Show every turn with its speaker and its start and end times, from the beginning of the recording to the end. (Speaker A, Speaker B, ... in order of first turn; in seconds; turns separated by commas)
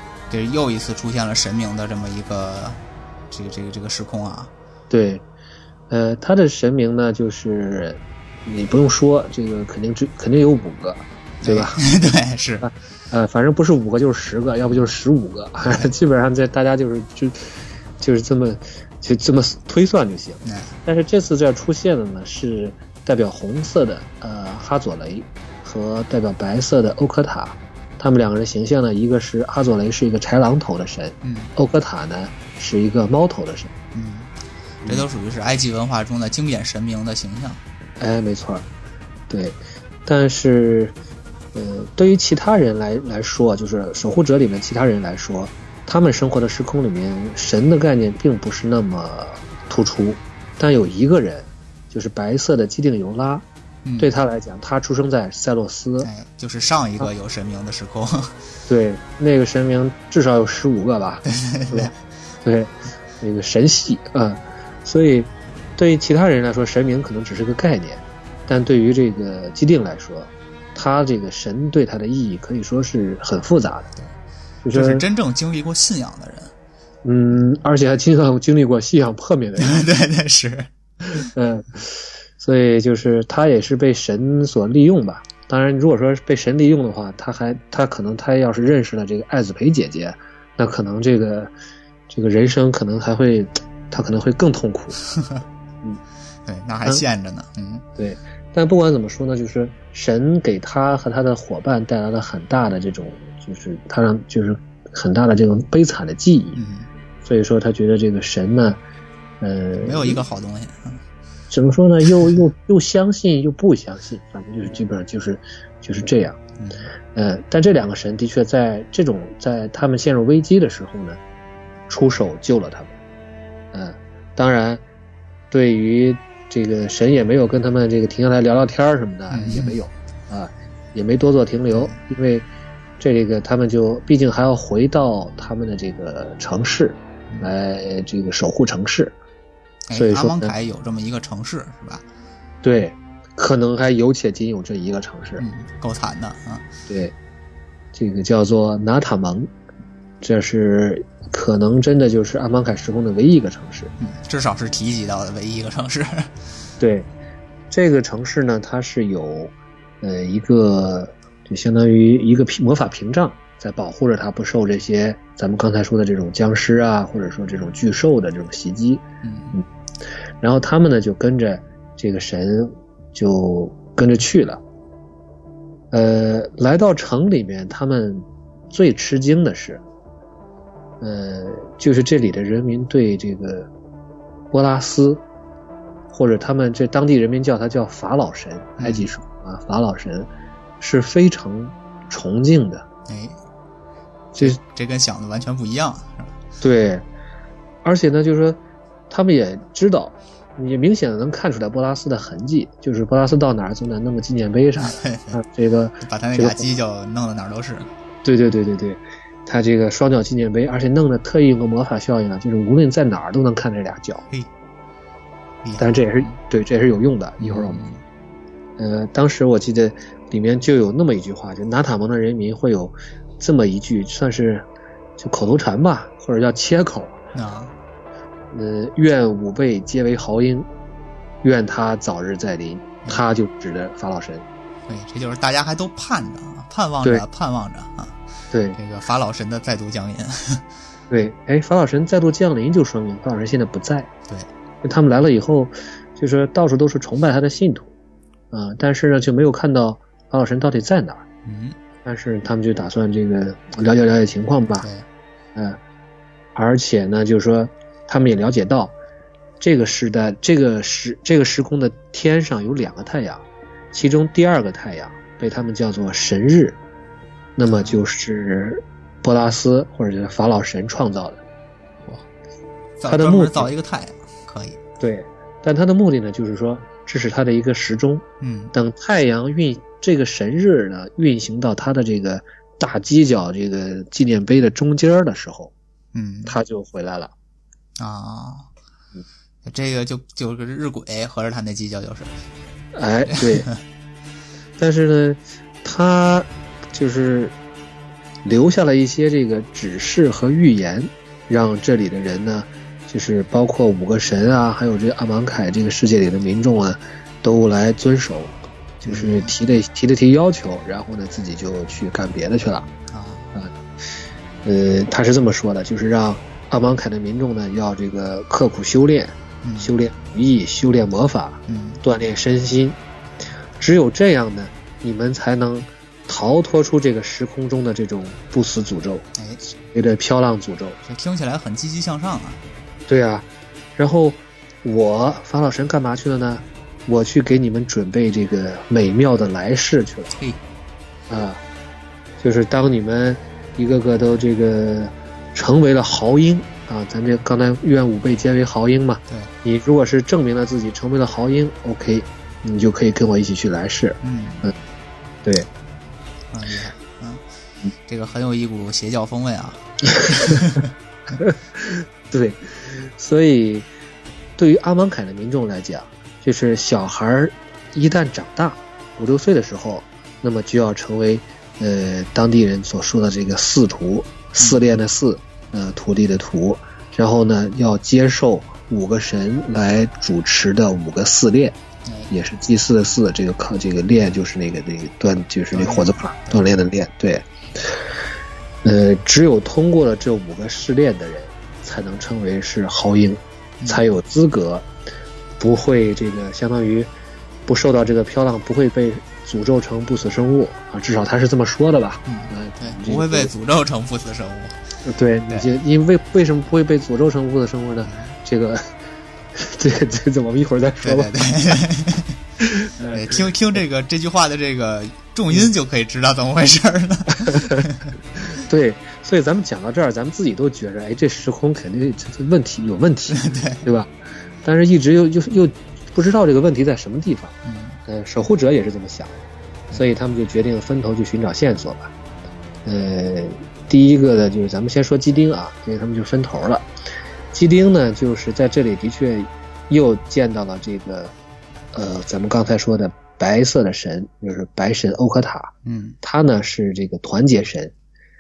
Speaker A: 0.3-4.5, Speaker B: 4.9-5.2, Speaker B: 5.9-11.8, Speaker A: 11.4-12.7, Speaker B: 12.6-33.7, Speaker A: 15.7-15.9, Speaker A: 20.4-20.7, Speaker A: 31.2-31.5, Speaker A: 33.9-34.3, Speaker A: 34.9-37.6, Speaker B: 38.0-38.7, Speaker B: 39.3-41.0, Speaker B: 41.5-53.5, Speaker A: 53.9-54.1, Speaker B: 54.0-56.1, Speaker A: 56.0-58.4, Speaker B: 58.7-73.9, Speaker A: 61.2-61.9, Speaker B: 74.7-75.0, Speaker A: 74.7-76.5, Speaker B: 77.0-79.8, Speaker A: 79.6-80.7, Speaker B: 81.0-91.5, Speaker B: 92.1-95.0, Speaker A: 95.1-95.4, Speaker A: 96.5-97.8, Speaker B: 98.0-106.6, Speaker A: 106.6-106.9, Speaker B: 107.2-108.8, Speaker B: 109.4-110.2, Speaker A: 109.8-111.0, Speaker B: 111.5-116.4, Speaker A: 116.6-116.9, Speaker B: 117.1-121.2, Speaker B: 121.9-122.9, Speaker B: 123.7-124.8, Speaker B: 125.5-132.5, Speaker A: 129.3-129.8, Speaker A: 131.7-132.0, Speaker B: 133.0-139.2, Speaker A: 139.9-142.1, Speaker B: 139.9-140.5, Speaker B: 142.6-145.4, Speaker A: 145.4-146.7, Speaker B: 146.9-147.1, Speaker B: 147.9-149.5, Speaker B: 150.2-153.9, Speaker A: 154.0-156.3, Speaker B: 156.8-157.1, Speaker B: 157.7-169.7, Speaker A: 169.2-169.6, Speaker B: 170.4-174.6, Speaker B: 175.9-179.8, Speaker B: 181.0-183.7, Speaker B: 184.5-185.2, Speaker B: 186.1-190.3, Speaker A: 188.8-189.1, Speaker B: 190.8-192.8, Speaker A: 193.1-193.4, Speaker A: 194.4-196.4, Speaker B: 196.6-197.1, Speaker B: 197.8-198.6, Speaker B: 199.1-206.6, Speaker A: 204.8-205.4, Speaker A: 206.0-207.9, Speaker B: 208.2-214.2, Speaker A: 215.6-216.3, Speaker B: 215.8-217.8, Speaker A: 217.4-218.0, Speaker B: 218.8-224.6, Speaker B: 225.2-227.2, Speaker A: 227.3-227.7, Speaker B: 228.5-230.7, Speaker B: 231.4-234.4, Speaker A: 234.9-238.2, Speaker B: 238.5-238.8, Speaker A: 238.8-240.7, Speaker B: 241.1-244.1, Speaker B: 244.8-247.9, Speaker B: 248.5-251.2, Speaker A: 251.4-251.8, Speaker B: 252.1-254.9, Speaker A: 254.8-255.1, Speaker B: 256.6-259.0, Speaker B: 259.6-266.8, Speaker B: 267.6-271.4, Speaker A: 267.7-268.0, Speaker A: 273.0-274.8, Speaker B: 273.1-273.7, Speaker B: 275.0-285.7, Speaker A: 278.4-278.7, Speaker A: 286.1-286.6, Speaker B: 286.5-287.3, Speaker A: 288.0-288.7, Speaker A: 289.6-292.3, Speaker B: 292.9-293.7, Speaker A: 293.3-293.8, Speaker B: 294.8-297.6, Speaker B: 298.4-312.9, Speaker A: 309.0-309.5, Speaker A: 313.1-313.5, Speaker B: 314.6-323.0, Speaker A: 319.6-319.9, Speaker A: 321.7-322.0, Speaker B: 323.8-329.3, Speaker B: 329.8-331.0, Speaker A: 331.1-332.6, Speaker B: 333.1-340.3, Speaker A: 340.3-340.6, Speaker B: 341.3-341.6, Speaker B: 342.4-354.8, Speaker A: 354.2-354.7, Speaker A: 356.5-357.4, Speaker A: 358.1-360.9, Speaker B: 360.2-360.6, Speaker B: 361.4-363.9, Speaker B: 364.6-381.8, Speaker A: 382.1-382.3, Speaker B: 382.3-388.0, Speaker A: 385.7-386.7, Speaker B: 388.8-394.9, Speaker A: 393.8-394.1, Speaker B: 395.6-397.1, Speaker B: 397.7-403.5, Speaker A: 402.3-404.8, Speaker B: 405.1-408.9, Speaker A: 408.1-408.4, Speaker B: 409.6-411.5, Speaker A: 411.0-412.4, Speaker B: 412.6-413.5, Speaker A: 413.1-418.1, Speaker B: 417.4-417.9, Speaker B: 418.4-424.1, Speaker A: 423.3-423.9, Speaker B: 424.6-429.4, Speaker A: 427.6-428.0, Speaker B: 429.9-432.1, Speaker B: 432.9-436.9, Speaker B: 437.5-441.3, Speaker B: 441.9-447.9, Speaker A: 445.9-446.2